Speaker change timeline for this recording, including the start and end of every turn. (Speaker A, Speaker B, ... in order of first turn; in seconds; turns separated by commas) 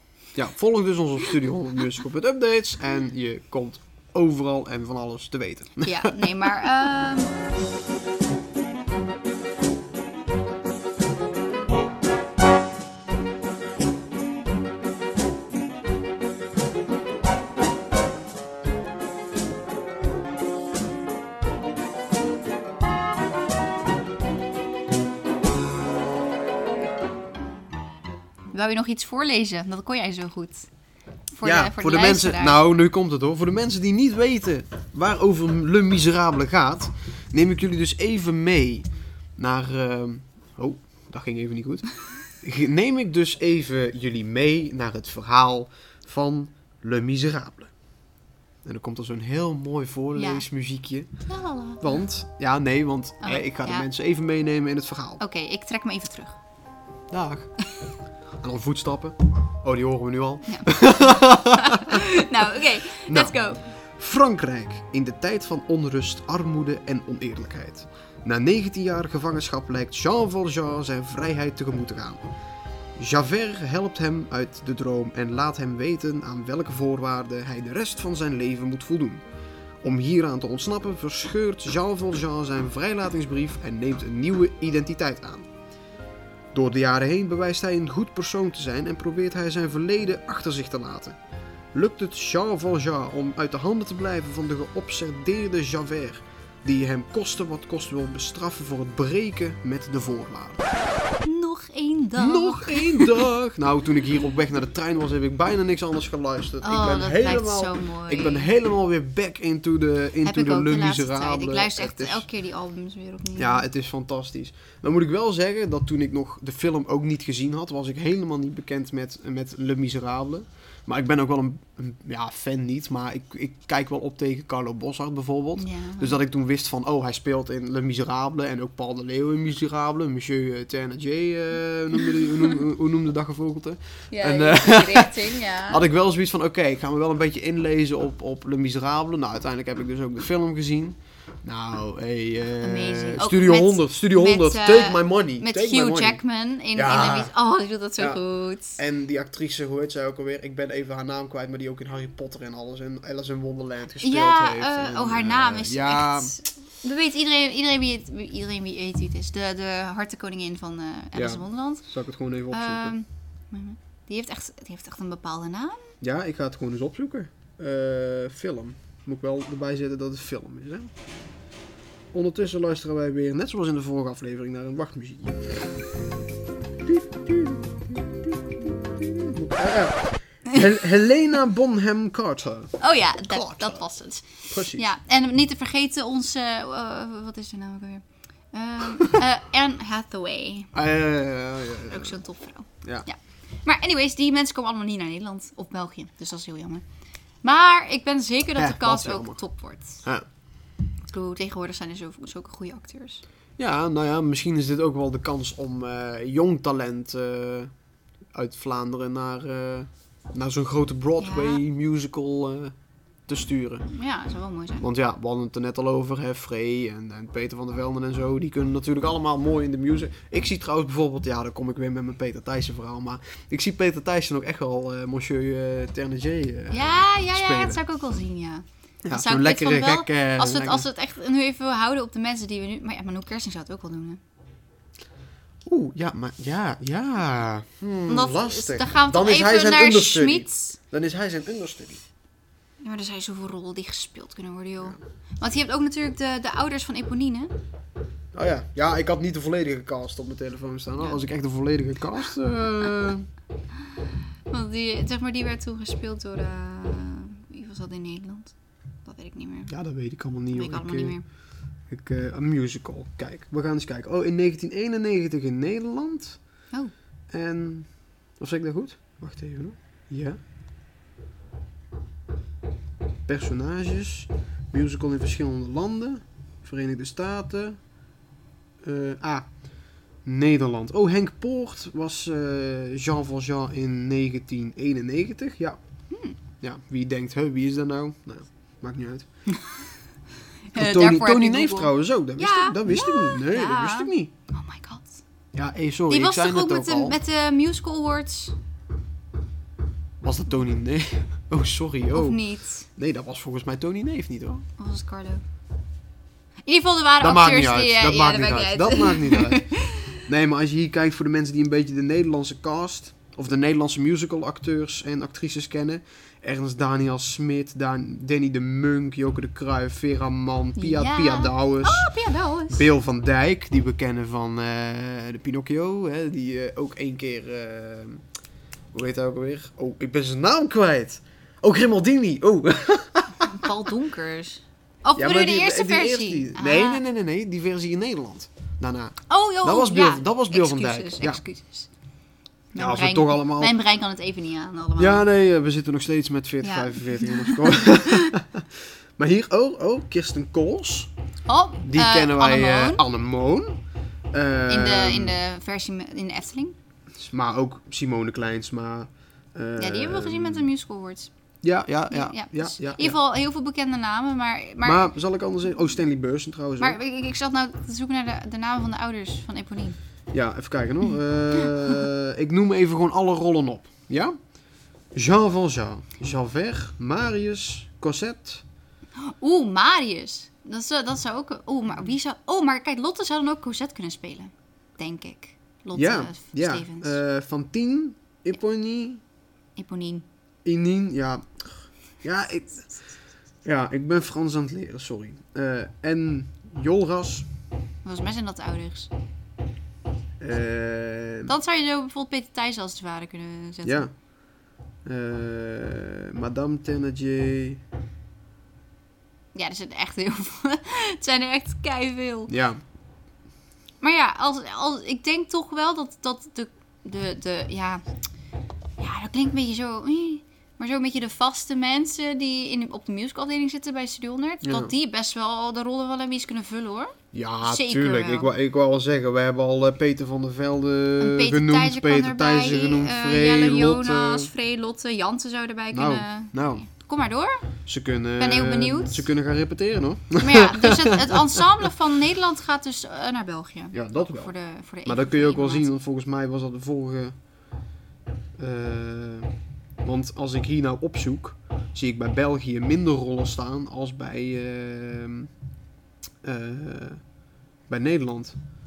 Speaker A: 0.3-6.5, Speaker B: 5.8-7.3, Speaker B: 28.5-30.7, Speaker B: 31.4-32.6, Speaker A: 31.4-41.9, Speaker A: 42.4-47.7, Speaker A: 48.6-51.1, Speaker B: 50.2-50.5, Speaker B: 51.3-51.9, Speaker A: 51.8-55.2, Speaker B: 53.2-53.9, Speaker B: 55.2-56.4, Speaker A: 57.1-57.5, Speaker A: 58.4-62.0, Speaker B: 60.5-60.8, Speaker B: 61.5-63.6, Speaker A: 63.1-63.4, Speaker A: 64.0-72.3, Speaker A: 73.0-79.2, Speaker A: 79.8-85.5, Speaker A: 86.5-91.2, Speaker A: 91.7-100.7, Speaker B: 101.2-103.3, Speaker A: 102.2-112.2, Speaker B: 106.6-108.5, Speaker B: 110.2-113.7, Speaker A: 113.4-146.2, Speaker B: 125.6-126.2, Speaker B: 134.1-135.8, Speaker B: 142.6-148.8, Speaker A: 146.8-147.3, Speaker A: 148.8-156.3, Speaker B: 154.0-161.9, Speaker A: 161.1-162.9, Speaker B: 162.5-165.9, Speaker A: 166.0-170.9, Speaker A: 172.1-175.7, Speaker A: 176.8-183.8, Speaker B: 182.8-190.7, Speaker A: 184.5-184.9, Speaker A: 190.7-192.2, Speaker B: 191.9-196.8, Speaker B: 197.4-200.0, Speaker A: 198.6-199.4, Speaker B: 201.1-203.2, Speaker A: 203.6-207.7, Speaker A: 208.3-212.8, Speaker B: 211.2-211.6, Speaker A: 213.3-213.8, Speaker B: 213.9-214.8, Speaker A: 214.8-227.8, Speaker B: 226.7-234.2, Speaker A: 229.1-230.9, Speaker A: 235.7-242.0, Speaker B: 238.1-240.8, Speaker B: 242.8-247.5, Speaker A: 248.3-253.3, Speaker B: 254.5-259.7, Speaker A: 259.7-261.2, Speaker B: 260.5-261.2, Speaker A: 261.9-266.4, Speaker A: 267.3-270.4, Speaker A: 273.3-277.8, Speaker A: 278.8-279.5, Speaker A: 280.2-285.8, Speaker B: 286.1-286.4, Speaker A: 286.6-289.3, Speaker B: 290.7-295.2, Speaker A: 290.7-294.3, Speaker A: 295.5-297.2, Speaker B: 296.1-298.6, Speaker A: 300.2-304.6, Speaker B: 302.1-302.9, Speaker B: 304.8-305.4, Speaker B: 306.7-310.2, Speaker A: 307.2-322.1, Speaker B: 320.8-322.9, Speaker A: 322.7-328.2, Speaker A: 328.9-333.7, Speaker B: 333.4-337.0, Speaker A: 335.2-341.4, Speaker B: 339.3-341.9, Speaker B: 342.7-345.2, Speaker A: 342.8-343.7, Speaker A: 345.0-348.7, Speaker B: 346.6-348.4, Speaker A: 349.2-351.1, Speaker B: 351.5-353.0, Speaker A: 351.8-353.8, Speaker A: 354.3-355.4, Speaker B: 354.7-356.8, Speaker A: 357.2-360.7, Speaker B: 359.8-361.3, Speaker A: 361.6-363.2, Speaker B: 362.1-365.1, Speaker A: 364.8-367.0, Speaker B: 366.8-370.0, Speaker A: 370.3-374.4, Speaker A: 375.1-378.6, Speaker B: 379.2-387.2, Speaker A: 385.9-389.2, Speaker B: 389.8-390.2, Speaker A: 390.6-392.9, Speaker A: 393.6-397.5, Speaker B: 398.0-399.1, Speaker A: 400.4-401.5, Speaker B: 401.5-404.1, Speaker A: 403.9-404.1, Speaker A: 405.1-407.8, Speaker B: 409.6-412.5, Speaker A: 412.5-412.8, Speaker B: 414.0-418.0, Speaker B: 419.0-428.5, Speaker A: 424.6-424.9, Speaker A: 427.3-434.5, Speaker B: 431.2-437.6, Speaker A: 435.9-436.9, Speaker A: 437.9-441.9, Speaker B: 438.4-439.2, Speaker B: 440.4-445.9, Speaker A: 443.9-444.5, Speaker A: 445.1-447.3, Speaker A: 448.6-449.5, Speaker A: 450.0-455.5, Speaker A: 456.4-457.2, Speaker A: 457.9-458.6